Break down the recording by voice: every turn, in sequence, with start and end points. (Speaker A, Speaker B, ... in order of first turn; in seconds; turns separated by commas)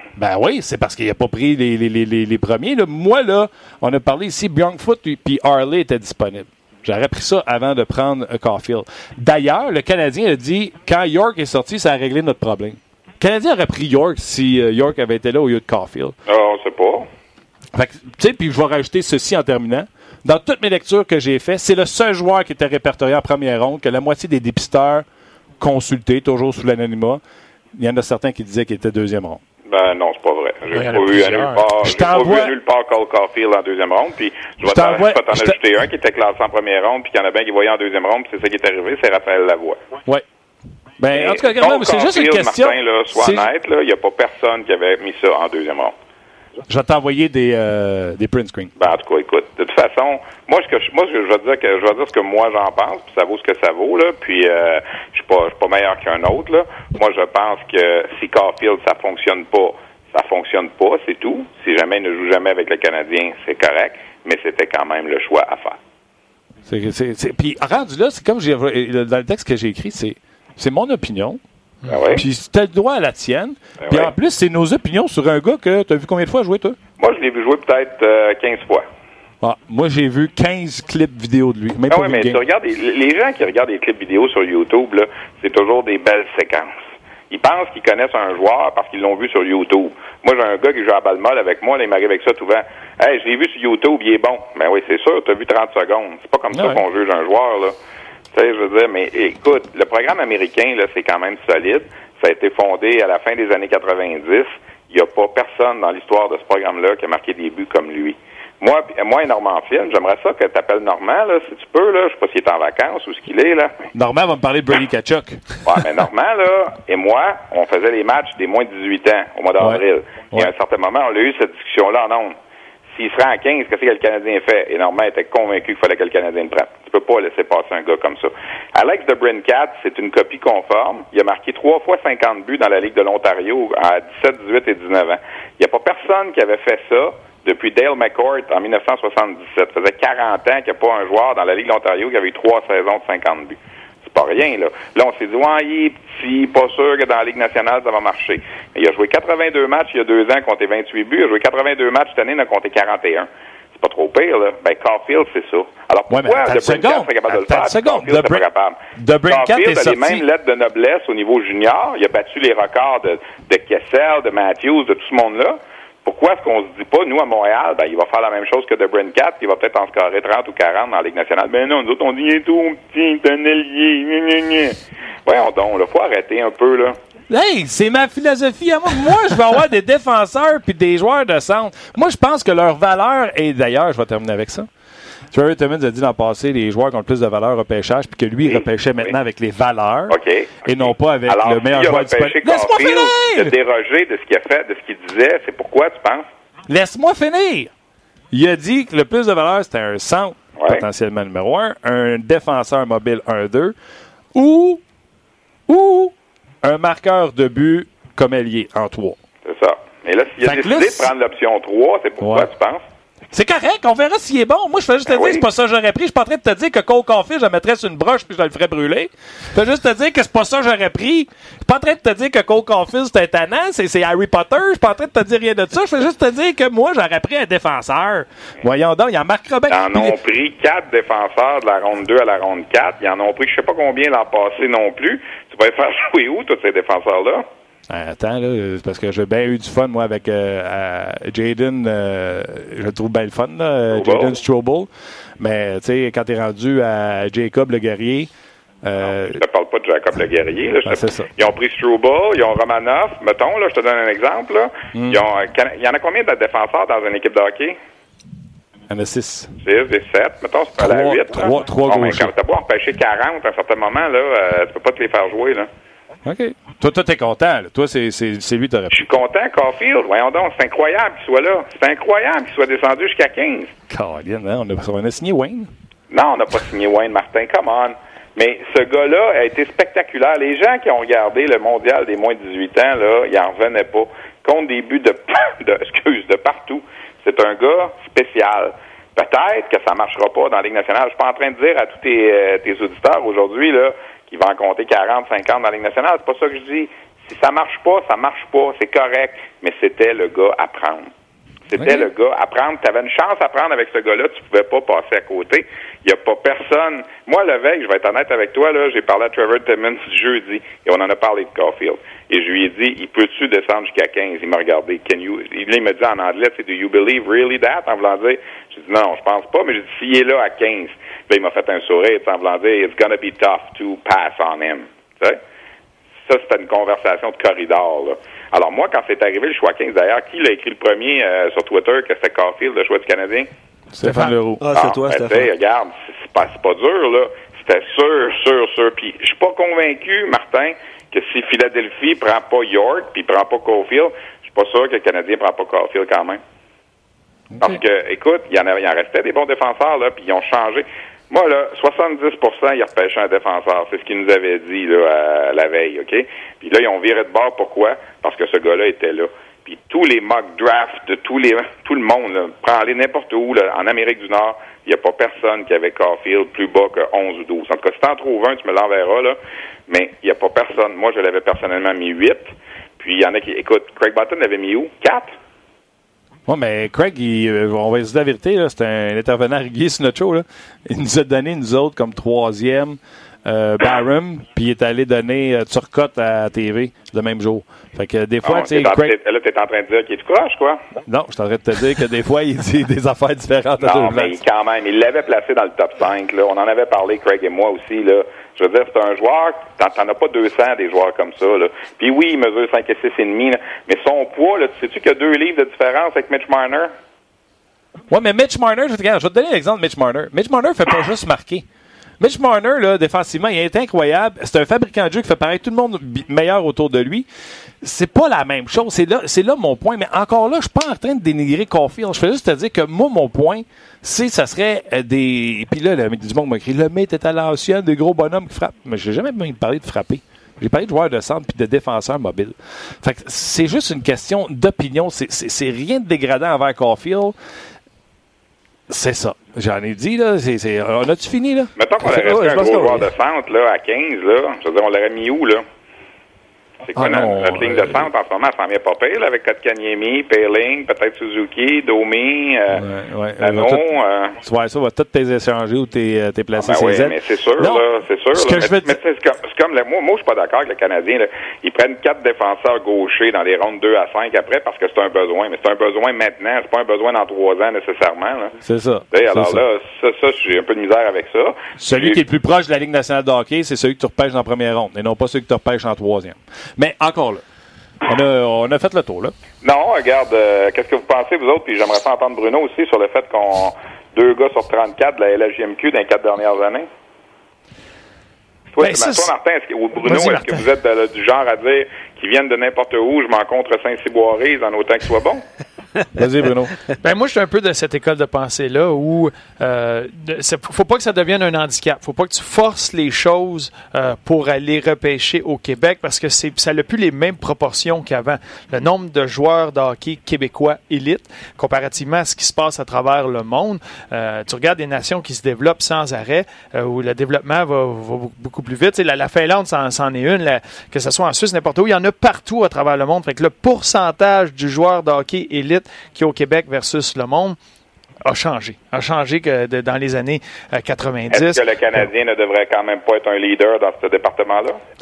Speaker A: 0.2-16.1, Speaker B: 16.3-17.1, Speaker A: 17.7-25.1, Speaker A: 25.6-27.2, Speaker A: 27.8-29.4, Speaker B: 29.7-39.8, Speaker C: 30.7-31.6, Speaker A: 31.8-32.5, Speaker A: 34.6-35.6, Speaker A: 41.0-43.5, Speaker B: 41.1-45.9, Speaker A: 46.7-48.7, Speaker B: 48.8-65.8, Speaker A: 66.7-71.4, Speaker B: 71.9-72.2, Speaker A: 72.1-76.8, Speaker B: 73.8-74.1, Speaker B: 77.0-78.8, Speaker A: 79.4-82.4, Speaker B: 81.9-86.7, Speaker B: 87.3-97.7, Speaker A: 96.5-96.8, Speaker B: 98.3-113.8, Speaker A: 113.9-115.4, Speaker B: 115.7-122.4, Speaker B: 122.9-177.0, Speaker A: 156.1-158.4, Speaker A: 159.0-160.2, Speaker A: 177.3-184.7, Speaker A: 185.3-193.5, Speaker B: 188.4-189.2, Speaker B: 190.1-196.3, Speaker A: 196.7-197.7, Speaker A: 198.3-203.8, Speaker B: 200.6-200.8, Speaker A: 204.3-204.8, Speaker A: 205.7-209.2, Speaker B: 209.4-212.8, Speaker A: 210.4-211.1, Speaker A: 212.2-212.5, Speaker A: 213.3-230.2, Speaker B: 215.1-215.4, Speaker B: 229.7-237.4, Speaker A: 237.9-248.3, Speaker B: 243.9-244.4, Speaker A: 248.8-249.4, Speaker B: 249.3-257.8, Speaker A: 250.8-251.3, Speaker A: 254.9-255.2, Speaker A: 258.9-259.5, Speaker B: 259.6-265.7, Speaker A: 260.8-262.3, Speaker A: 266.2-269.0, Speaker B: 268.9-273.7, Speaker A: 273.9-275.7, Speaker B: 276.1-301.1, Speaker B: 301.7-325.4, Speaker A: 301.8-302.1, Speaker B: 326.3-333.5, Speaker A: 333.9-334.6, Speaker C: 334.0-334.4, Speaker D: 334.6-335.5, Speaker B: 334.7-346.4, Speaker B: 347.6-375.3, Speaker A: 376.5-389.1, Speaker B: 388.4-390.8, Speaker A: 391.1-394.4, Speaker B: 393.8-406.9, Speaker A: 408.1-411.7, Speaker A: 412.2-417.3, Speaker A: 417.8-437.4, Speaker A: 438.9-441.7, Speaker B: 441.8-445.6, Speaker D: 442.0-443.1, Speaker B: 446.9-452.9, Speaker A: 446.9-448.1, Speaker A: 452.7-453.8, Speaker B: 453.4-454.4, Speaker A: 454.4-459.0, Speaker B: 456.6-468.6, Speaker A: 468.6-469.6, Speaker B: 469.1-472.2, Speaker A: 471.8-477.4, Speaker A: 478.1-479.3, Speaker B: 479.6-486.9, Speaker B: 488.7-495.4, Speaker C: 488.8-489.3, Speaker C: 490.1-490.6, Speaker A: 496.1-496.8, Speaker C: 497.0-527.6, Speaker C: 528.2-531.6, Speaker B: 531.3-534.8